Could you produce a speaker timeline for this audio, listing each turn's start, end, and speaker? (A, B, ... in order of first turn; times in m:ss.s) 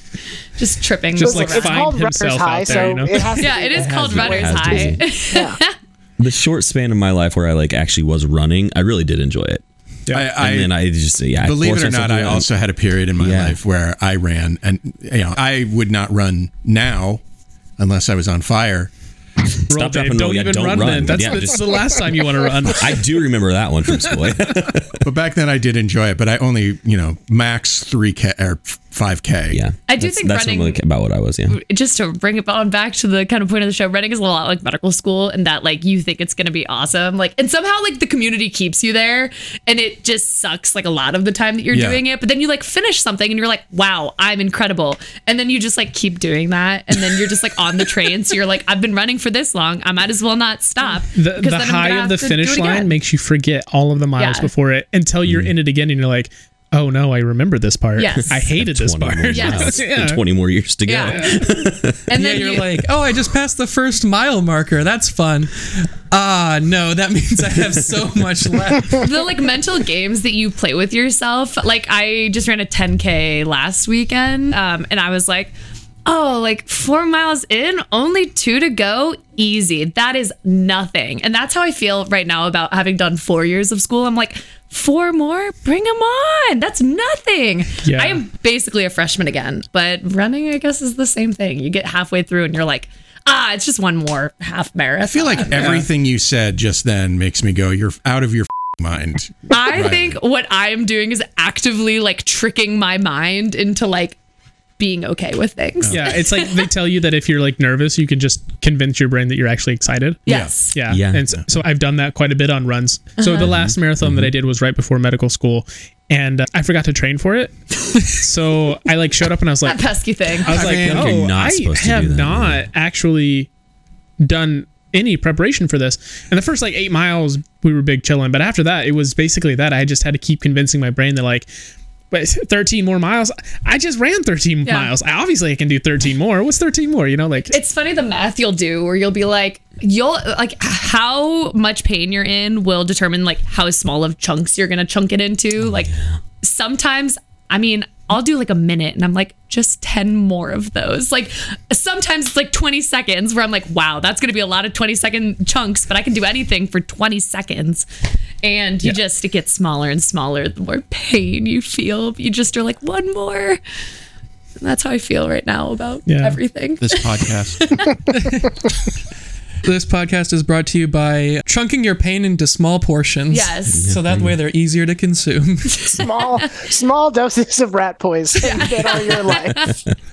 0:00.6-0:02.0 A
0:01.2-0:03.4 B
0:01.2-0:05.6 C
0:02.7-0:05.8 A
0:03.9-0:05.1 D
0:06.2-0:09.6 D
0:10.1-0:10.4 B
0:10.1-0:17.2 E
0:10.4-0:12.5 D
0:13.2-0:13.6 D
0:17.8-0:18.9 E
0:19.7-0:22.1 D
0:19.7-0:23.3 B
0:22.6-0:25.0 D
0:25.0-0:29.6 E
0:29.5-0:31.6 D
0:29.9-0:30.8 A
0:31.5-0:52.9 A
0:41.7-0:42.0 E
0:51.1-1:00.2 B
0:54.2-0:54.5 A
0:55.3-0:55.5 D
0:58.0-0:58.5 A
0:58.2-1:02.0 D
0:59.3-0:59.8 A
1:00.9-1:01.4 A
1:01.0-1:01.4 B
1:02.1-1:02.8 A
1:02.1-1:09.1 F
1:09.0-1:35.8 A
1:27.8-1:28.2 B
1:35.0-1:40.2 E
1:35.5-1:35.9 B
1:39.5-1:44.2 A
1:44.8-1:46.7 A
1:45.8-1:46.2 E
1:45.9-1:50.2 B
1:50.3-1:50.7 E
1:50.3-1:50.8 A
1:50.7-1:59.9 B
1:50.9-1:51.3 D
1:53.2-1:53.5 A
1:53.4-1:54.3 D
1:59.6-2:00.8 A
2:00.4-2:03.5 B
2:00.5-2:01.3 E
2:00.6-2:02.7 D
2:04.2-2:11.5 B
2:12.1-2:17.5 B
2:14.6-2:14.9 A
2:17.5-2:37.9 A
2:38.4-2:43.6 A
2:44.6-2:47.9 A
2:46.1-2:46.4 B
2:46.8-2:47.9 E
2:49.6-2:55.9 F
2:53.3-2:53.9 A
2:53.7-2:54.4 D
2:55.8-2:56.5 A
2:55.9-2:59.8 C
2:58.4-2:59.7 A